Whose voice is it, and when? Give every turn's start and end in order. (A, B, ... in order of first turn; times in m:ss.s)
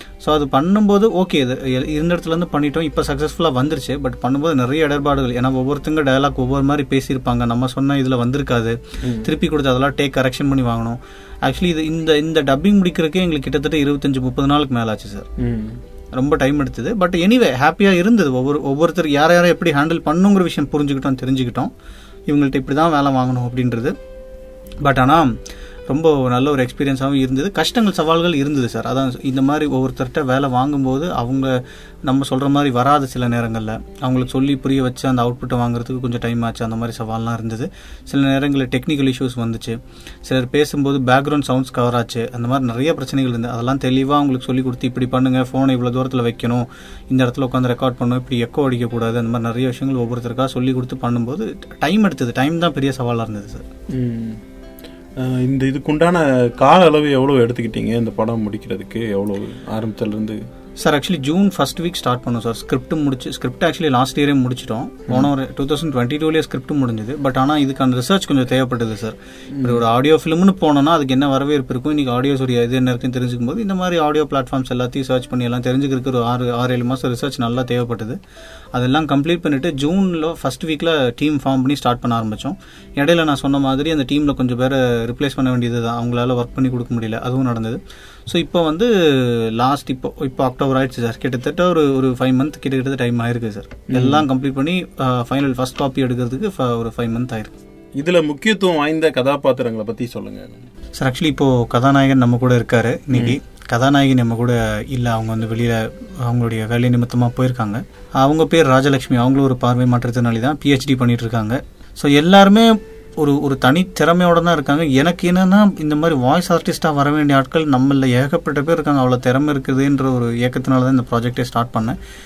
0:00.2-0:15.3 A
0:09.0-0:09.3 B
0:15.4-0:15.8 B
0:16.2-0:21.7 A
0:22.3-0:23.9 A
0:24.8-0:25.3 A
0:25.9-0:53.6 A
0:53.9-0:54.4 B
0:55.2-1:00.4 B
1:00.8-1:18.2 A
1:09.6-1:09.8 B
1:18.7-1:37.5 A
1:33.9-1:34.2 B
1:38.0-1:40.6 B
1:41.0-2:02.0 A